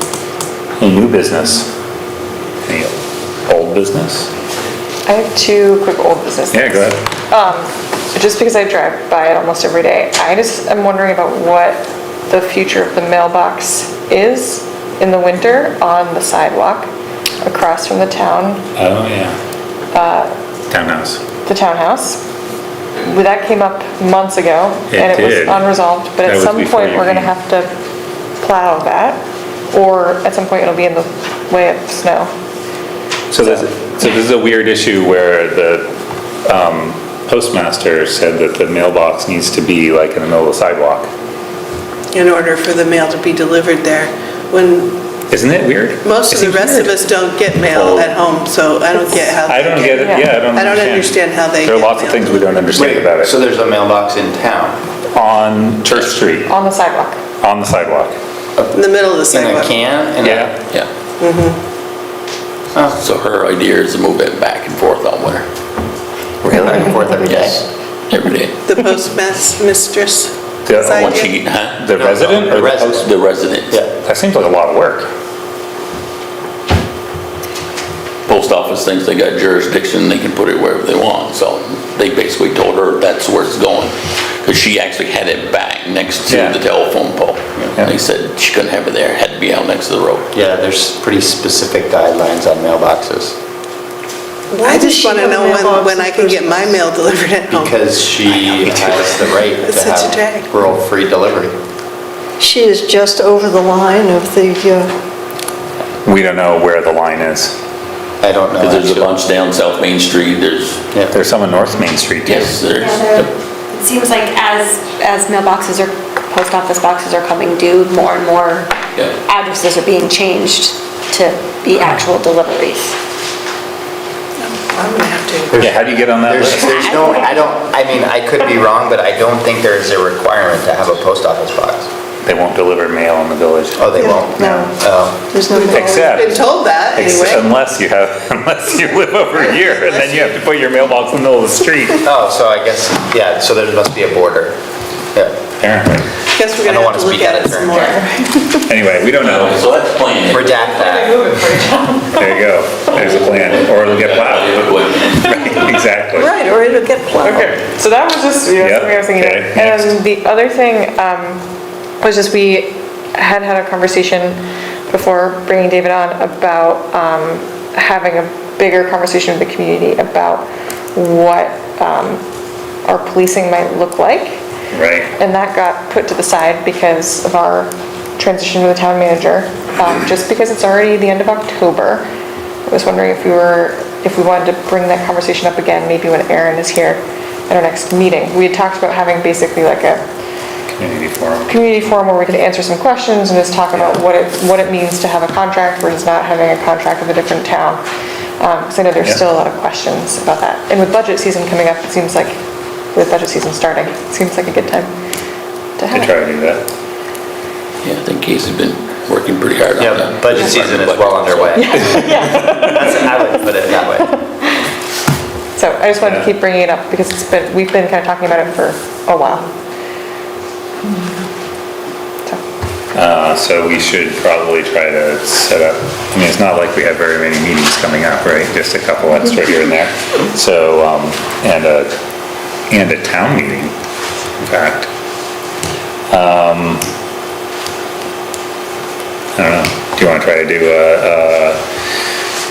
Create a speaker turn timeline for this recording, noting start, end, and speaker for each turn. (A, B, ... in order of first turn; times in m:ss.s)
0:00.8-0:01.7 A
0:02.6-0:04.3 A
0:05.0-0:16.9 B
0:06.5-0:07.0 A
0:17.4-0:18.6 B
0:18.8-0:19.4 A
0:19.9-0:20.3 B
0:20.7-0:21.2 A
0:21.4-0:22.2 B
0:23.0-0:27.7 B
0:24.9-0:27.3 A
0:28.4-0:29.2 B
0:29.7-0:32.3 B
0:33.3-0:35.9 A
0:36.4-0:41.1 A
0:42.1-0:44.9 C
0:45.3-0:46.9 A
0:46.0-0:52.3 C
0:47.7-0:48.2 A
0:49.4-0:53.3 A
0:49.9-0:50.3 B
0:52.7-0:54.8 D
0:55.1-0:56.6 A
0:56.4-0:57.2 B
0:57.4-0:58.1 A
0:58.7-0:59.6 C
0:59.3-1:00.5 D
1:00.2-1:00.5 A
1:01.2-1:01.6 C
1:02.9-1:05.4 E
1:06.4-1:07.6 D
1:06.6-1:07.6 E
1:08.1-1:08.6 E
1:08.7-1:11.1 C
1:10.6-1:11.1 A
1:10.8-1:11.8 E
1:11.8-1:13.0 A
1:11.9-1:13.1 D
1:12.9-1:13.8 E
1:14.0-1:15.1 A
1:18.3-1:30.3 E
1:26.3-1:26.6 A
1:30.3-1:33.3 D
1:34.6-1:36.8 F
1:34.6-1:37.7 C
1:37.5-1:41.5 D
1:39.6-1:40.5 C
1:42.4-1:44.9 F
1:46.0-1:47.6 A
1:48.2-1:49.1 D
1:48.6-1:50.8 E
1:51.1-1:52.5 A
1:52.2-1:53.3 E
1:52.7-1:58.7 G
1:59.2-2:02.9 G
2:04.4-2:05.5 C
2:05.5-2:11.9 D
2:05.6-2:07.0 A
2:06.8-2:07.4 G
2:12.2-2:14.7 A
2:13.8-2:15.2 D
2:14.0-2:14.6 F
2:15.3-2:16.1 F
2:15.6-2:16.4 A
2:15.7-2:17.4 C
2:17.0-2:22.0 A
2:22.0-2:24.5 D
2:25.6-2:26.1 A
2:26.4-2:28.4 C
2:26.6-2:27.9 D
2:27.7-2:28.0 B
2:28.6-2:29.6 A
2:29.2-2:30.7 E
2:30.3-2:31.3 D
2:30.6-2:32.4 B
2:32.1-2:36.3 A
2:33.0-2:35.6 E
2:36.2-2:37.5 F
2:37.2-2:41.4 B
2:37.3-2:37.6 A
2:38.6-2:40.0 A
2:42.0-2:52.2 B
2:52.8-2:54.4 B
2:54.7-2:55.1 A
2:55.2-3:02.1 B
3:02.7-3:10.0 B
3:10.7-3:12.0 A
3:11.5-3:17.8 B
3:18.4-3:22.4 B
3:22.9-3:24.9 B
3:25.8-3:26.2 B
3:25.9-3:26.6 A
3:27.8-3:31.8 E
3:29.8-3:34.1 D
3:31.5-3:33.3 B
3:31.8-3:32.9 A
3:34.0-3:34.5 B
3:35.6-3:39.5 B
3:36.0-3:36.3 A
3:42.9-3:51.9 A
3:52.7-3:53.7 A
3:54.4-3:54.9 A
3:56.1-3:56.8 A
3:59.4-4:01.6 A